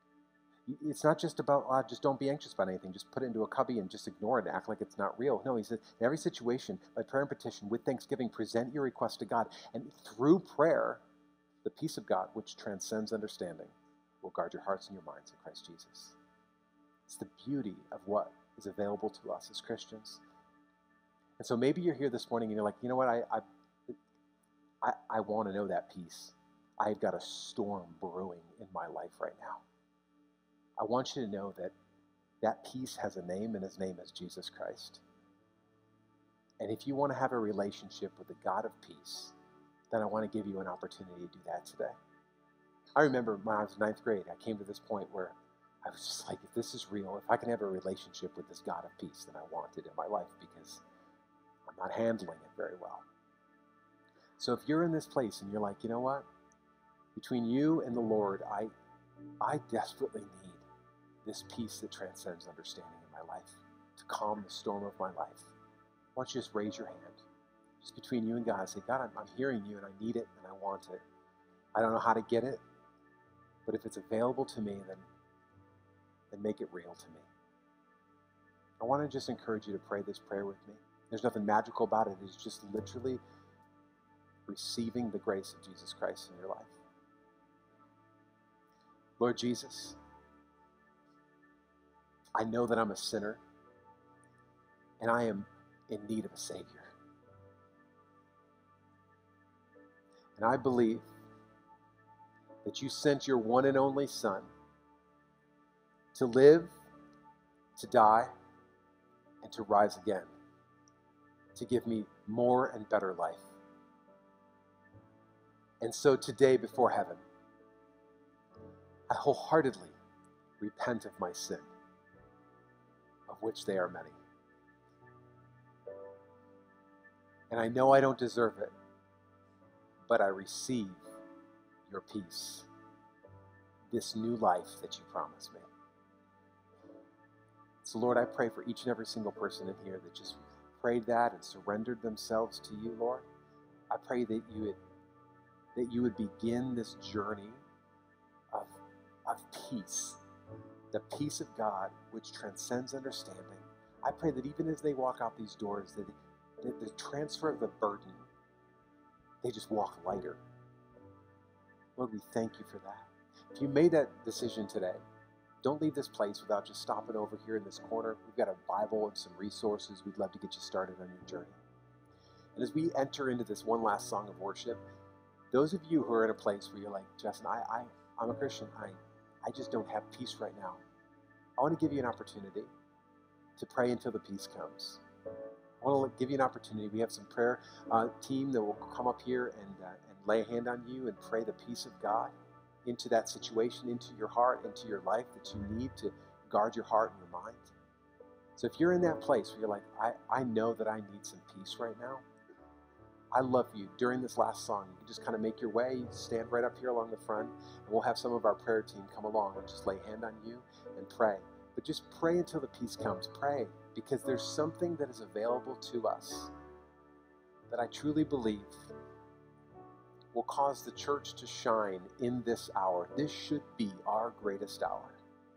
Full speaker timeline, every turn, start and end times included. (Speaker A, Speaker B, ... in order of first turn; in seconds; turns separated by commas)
Speaker A: 0.7-11.0, Speaker A: 11.6-16.2, Speaker A: 17.1-20.2, Speaker A: 21.4-23.9, Speaker A: 24.8-29.6, Speaker A: 30.8-31.7, Speaker A: 32.4-35.0, Speaker A: 36.6-39.4, Speaker A: 39.9-42.0, Speaker A: 43.0-50.8, Speaker A: 51.7-53.0, Speaker A: 54.4-56.3, Speaker A: 57.1-58.7, Speaker A: 59.4-60.6, Speaker A: 61.2-65.5, Speaker A: 66.2-67.2, Speaker A: 67.8-71.0, Speaker A: 71.8-72.6, Speaker A: 73.7-75.1, Speaker A: 76.3-77.3, Speaker A: 78.8-83.2, Speaker A: 84.5-86.8, Speaker A: 89.2-90.0, Speaker A: 92.4-93.4, Speaker A: 95.0-96.9, Speaker A: 100.4-101.1, Speaker A: 102.6-104.5, Speaker A: 106.1-106.8, Speaker A: 107.8-108.3, Speaker A: 109.4-110.3, Speaker A: 111.5-113.5, Speaker A: 115.8-117.2, Speaker A: 119.1-120.0, Speaker A: 120.6-121.7, Speaker A: 123.3-124.2, Speaker A: 127.5-128.7, Speaker A: 130.1-131.1, Speaker A: 131.9-132.7, Speaker A: 133.9-135.7, Speaker A: 137.8-143.2, Speaker A: 143.9-144.8, Speaker A: 145.8-147.6, Speaker A: 148.5-150.2, Speaker A: 150.9-158.3, Speaker A: 159.4-160.4, Speaker A: 162.0-165.0, Speaker A: 165.6-171.6, Speaker A: 172.6-174.8, Speaker A: 175.5-180.8, Speaker A: 181.6-182.7, Speaker A: 183.6-185.0, Speaker A: 185.8-192.3, Speaker A: 192.8-197.7, Speaker A: 198.6-202.2, Speaker A: 203.3-216.5, Speaker A: 217.7-218.9, Speaker A: 220.3-225.2